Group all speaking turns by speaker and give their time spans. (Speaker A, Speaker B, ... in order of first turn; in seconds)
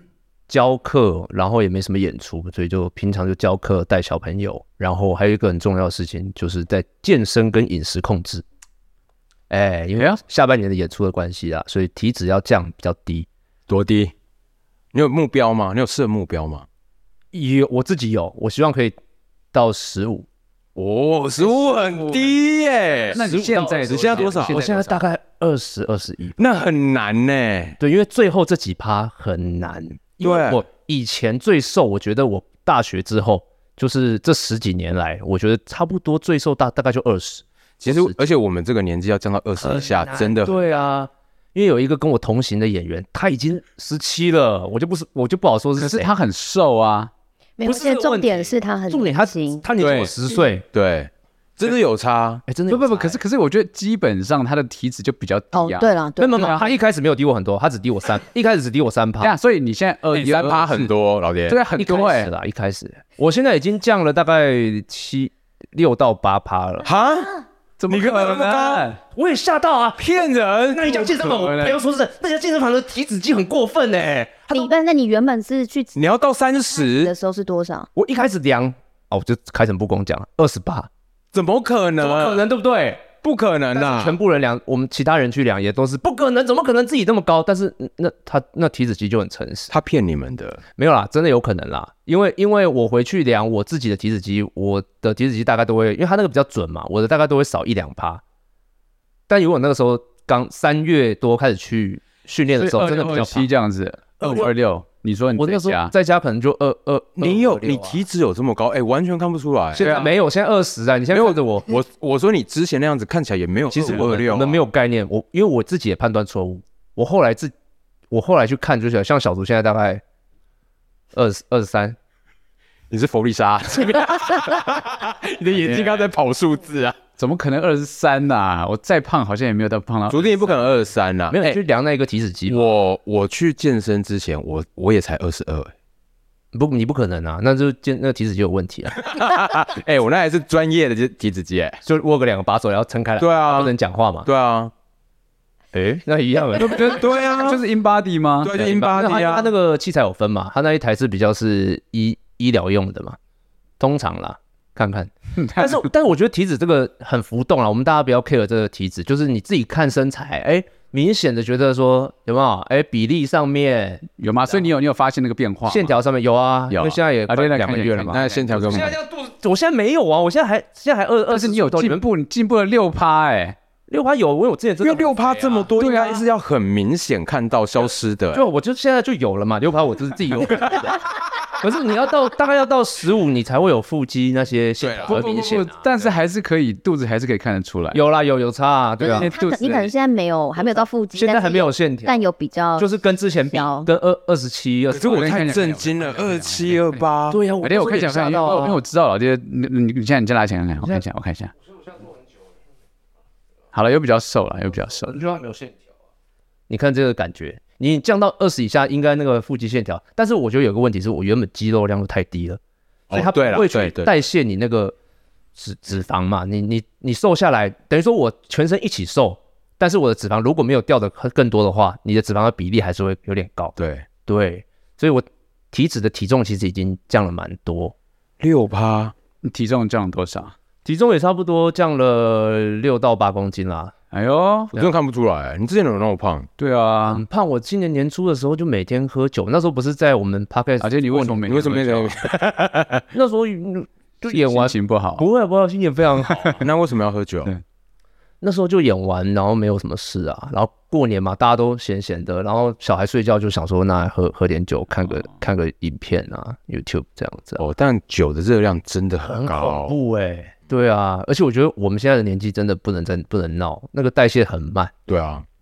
Speaker A: 0.5-8.4, 9.5-13.3, 17.3-18.9, 19.5-20.3, 23.1-26.4, 27.8-38.2, 39.6-46.1, 47.6-50.6, 52.5-53.2, 56.2-59.3, 61.8-66.9, 69.1-74.7, 78.0-80.9, 82.0-83.1, 83.7-89.7, 90.8-98.2, 99.3-103.5, 104.2-104.5, 105.4-108.0, 109.7-111.7, 113.7-117.5, 118.1-120.0, 121.1-122.0, 131.3-132.7, 136.5-139.1, 141.8-144.3, 145.7-147.0, 148.5-153.2, 153.8-164.7, 165.7-172.1, 173.9-175.7, 178.3-185.8, 187.9-189.3, 191.1-192.1, 192.8-195.2, 197.3-198.8, 200.8-201.0, 205.1-205.8, 206.7-212.6, 213.1-214.9, 215.6-223.7, 224.2-227.9, 230.8-233.9, 237.1-241.4, 243.1-246.6, 248.4-257.6, 259.2-264.9
Speaker B: 13.7-14.1, 14.9-16.6, 20.8-23.2, 23.8-24.6, 26.4-27.8, 30.2-30.6, 37.8-40.6, 49.8-50.1, 50.7-52.4, 60.1-61.6, 66.8-67.4, 67.9-68.9, 70.0-71.0, 75.9-77.1, 81.3-82.4, 83.2-84.1, 89.7-90.6, 107.2-110.1, 111.1-114.6, 122.9-127.0, 130.1-131.6, 132.5-135.7, 139.0-141.8, 143.2-143.7, 144.2-144.7, 146.8-147.6, 148.4-149.5, 168.1-168.9, 174.8-178.4, 184.8-186.1, 194.9-197.4, 213.1-214.1, 223.8-224.1, 228.4-229.1, 234.7-236.5, 241.4-243.0, 246.6-247.5, 257.6-259.9, 265.1-265.4
Speaker C: 21.9-22.2, 23.1-25.0, 45.8-47.1, 52.7-56.7, 59.2-60.9, 61.5-62.3, 67.8-69.0, 71.2-71.8, 102.5-105.9, 109.8-110.1, 125.6-126.0, 127.2-130.6, 146.6-148.5, 155.4-155.8, 164.2-165.9, 166.7-168.9, 171.3-173.6, 175.8-176.2, 185.1-188.0, 189.1-189.9, 195.1-197.0, 197.6-201.5, 203.7-205.2, 229.4-230.5, 234.1-234.8, 236.6-237.2, 240.8-242.3, 244.3-245.2, 246.2-246.6
Speaker D: 47.6-49.6, 55.5-56.6, 74.5-76.0, 76.8-77.9, 189.0-192.9, 193.5-193.9